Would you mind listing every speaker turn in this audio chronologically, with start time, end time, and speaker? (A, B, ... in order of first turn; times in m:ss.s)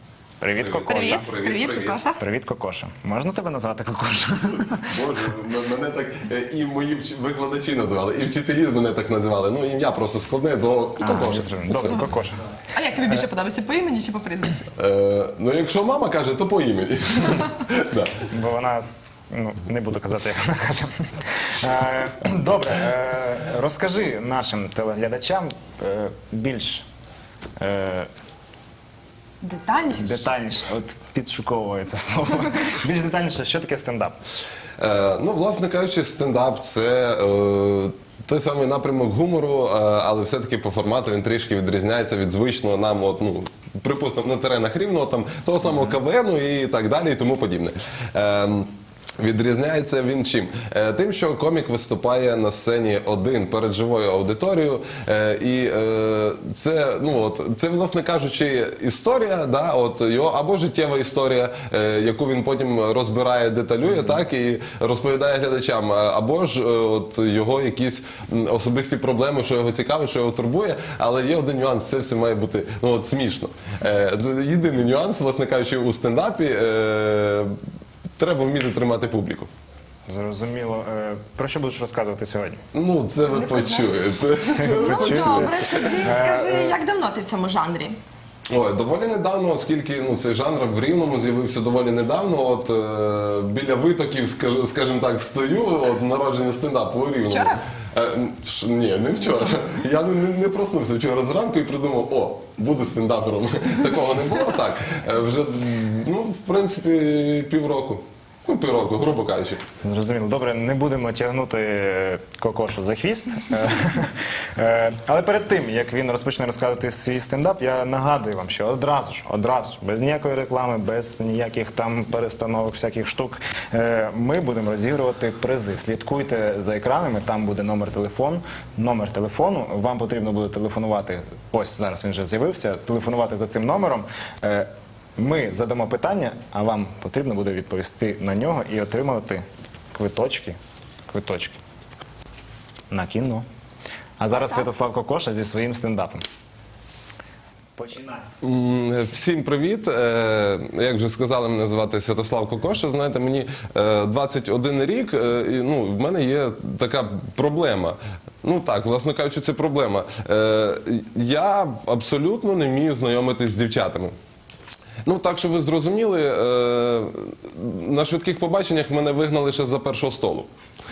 0:00.4-0:01.3 A
0:00.5-0:02.0 B
0:00.9-0:02.2 C
0:02.2-0:05.0 A
0:04.8-0:12.0 B
0:11.0-0:12.4 A
0:12.7-0:14.7 C
0:14.8-0:18.2 B
0:18.3-0:26.9 A
0:27.6-0:28.1 A
0:29.4-0:30.3 C
0:30.0-0:34.2 A
0:34.8-1:17.6 B
1:18.2-1:19.5 B
1:20.1-1:22.6 A
1:22.7-1:25.9 B
1:23.3-1:28.0 C
1:24.6-1:26.8 A
1:28.5-1:49.6 B
1:37.3-1:37.6 C
1:49.8-2:20.6 A
2:21.1-2:21.6 A
2:22.9-2:23.4 A
2:24.2-2:26.2 A
2:27.8-2:28.3 A
2:28.4-2:44.1 B
2:45.0-2:50.5 B